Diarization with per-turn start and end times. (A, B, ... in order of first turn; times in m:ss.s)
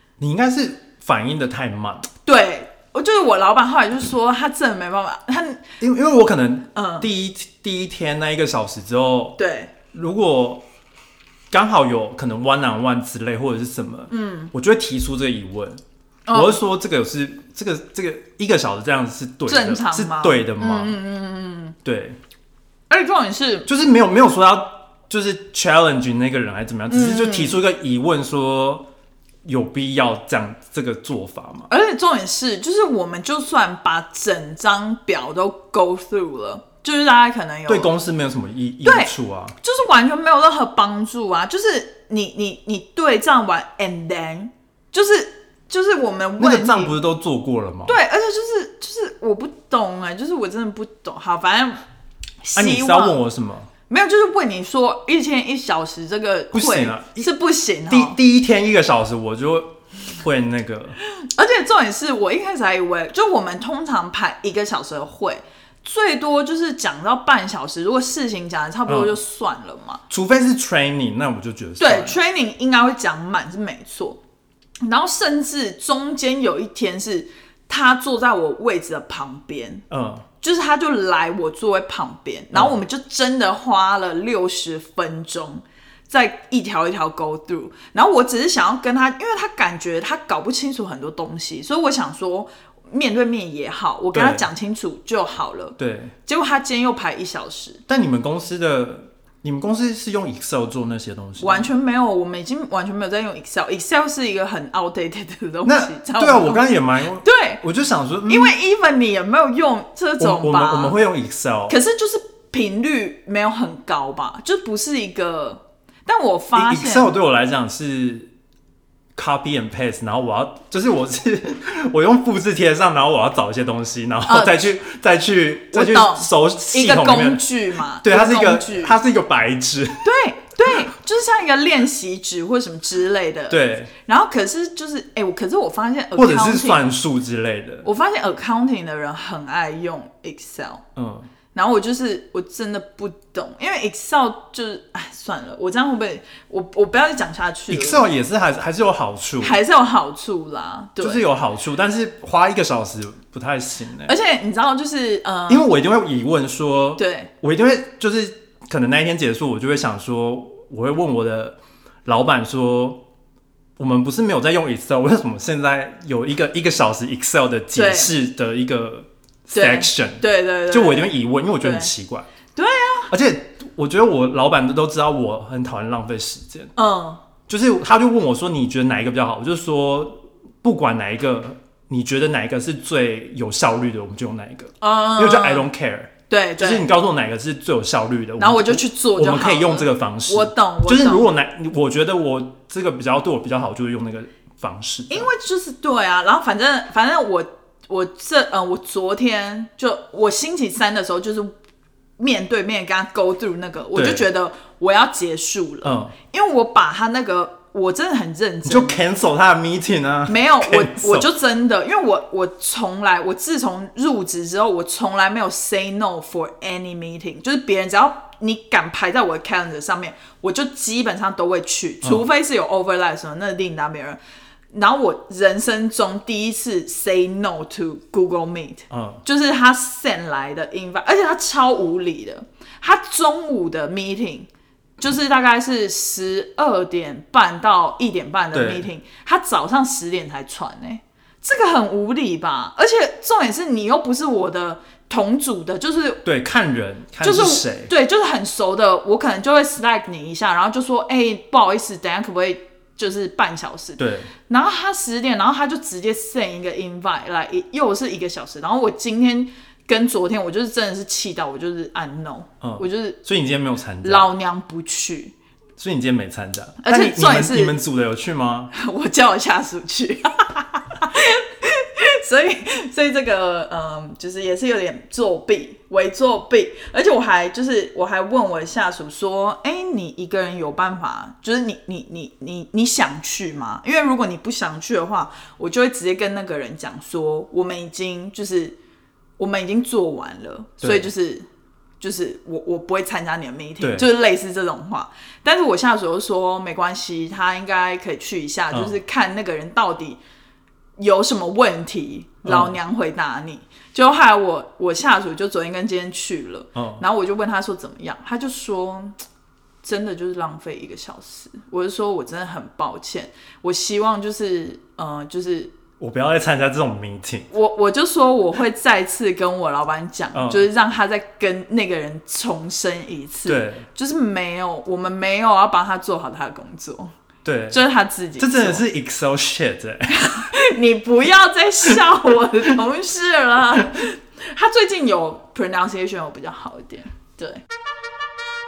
0:00.2-0:02.1 A
0:02.2-0:05.7 B
0:05.8-0:09.4 A
0:06.7-0:07.1 B
0:09.4-0:09.7 B
0:09.9-0:10.6 A
0:11.5-0:15.8 A
0:14.1-0:14.5 B
0:16.2-0:16.6 B
0:16.3-0:21.0 A
0:19.5-0:21.8 B
0:21.8-0:22.2 A
0:22.9-0:23.7 B
0:23.6-0:28.9 A
0:26.9-0:27.6 B
0:29.4-0:31.7 A
0:31.7-0:37.9 B
0:37.7-0:39.6 A
0:38.8-0:47.0 B
0:46.4-0:48.0 A
0:47.8-0:51.8 B
0:52.4-0:53.2 B
0:52.6-0:53.7 A
0:53.9-0:58.2 B
0:56.5-0:57.3 A
0:57.9-1:01.0 A
1:01.2-1:10.0 B
1:08.9-1:09.2 A
1:10.1-1:12.2 A
1:11.8-1:14.2 B
1:14.8-1:19.8 B
1:19.9-1:20.2 A
1:20.4-1:37.8 B
1:34.1-1:34.5 A
1:35.8-1:36.1 A
1:37.9-1:41.7 A
1:41.4-1:47.6 B
1:45.6-1:48.5 A
1:48.3-1:51.0 B
1:50.2-1:51.8 A
1:51.7-1:57.1 B
1:56.5-1:58.3 A
1:59.1-2:10.2 A
2:04.3-2:04.7 B
2:05.7-2:09.0 B
2:10.0-2:16.9 B
2:13.5-2:13.9 A
2:16.2-2:17.8 A
2:17.8-2:20.8 B
2:21.0-2:21.3 A
2:21.5-2:28.0 B
2:27.7-2:29.6 A
2:29.4-2:31.2 B
2:31.0-2:34.1 A
2:34.0-2:35.7 B
2:35.5-2:43.0 A
2:37.0-2:37.3 B
2:43.8-2:52.3 A
2:47.7-2:48.1 B
2:49.5-2:51.9 B
2:52.5-2:53.1 B
2:53.1-2:56.7 A
2:56.8-2:57.2 B
2:57.5-3:15.3 A
3:04.8-3:05.7 B
3:06.3-3:06.9 B
3:08.4-3:11.3 B
3:15.1-3:21.5 B
3:22.2-3:29.0 B
3:23.9-3:24.2 A
3:25.8-3:26.1 A
3:28.6-3:31.3 A
3:30.3-3:44.2 B
3:44.7-3:54.5 B
3:48.9-3:49.2 A
3:55.0-4:06.2 B
3:58.5-3:58.8 A
4:06.2-4:07.9 A
4:07.2-4:23.2 B
4:14.0-4:14.3 A
4:22.6-4:24.3 A
4:24.0-4:25.3 B
4:25.8-4:28.7 A
4:26.8-4:27.8 B
4:28.7-4:48.8 B
4:49.4-4:51.5 B
4:50.8-4:51.1 A
4:52.0-5:00.2 B
4:53.8-4:54.0 A
4:58.7-4:59.0 A
5:01.0-5:09.1 B
5:02.4-5:02.8 A
5:06.8-5:07.0 A
5:09.8-5:15.7 B
5:16.0-5:17.5 A
5:17.5-5:27.1 B
5:20.3-5:20.7 A
5:23.4-5:23.8 A
5:27.4-5:27.8 A
5:27.7-5:28.8 B
5:28.4-5:30.3 A
5:30.1-5:37.6 B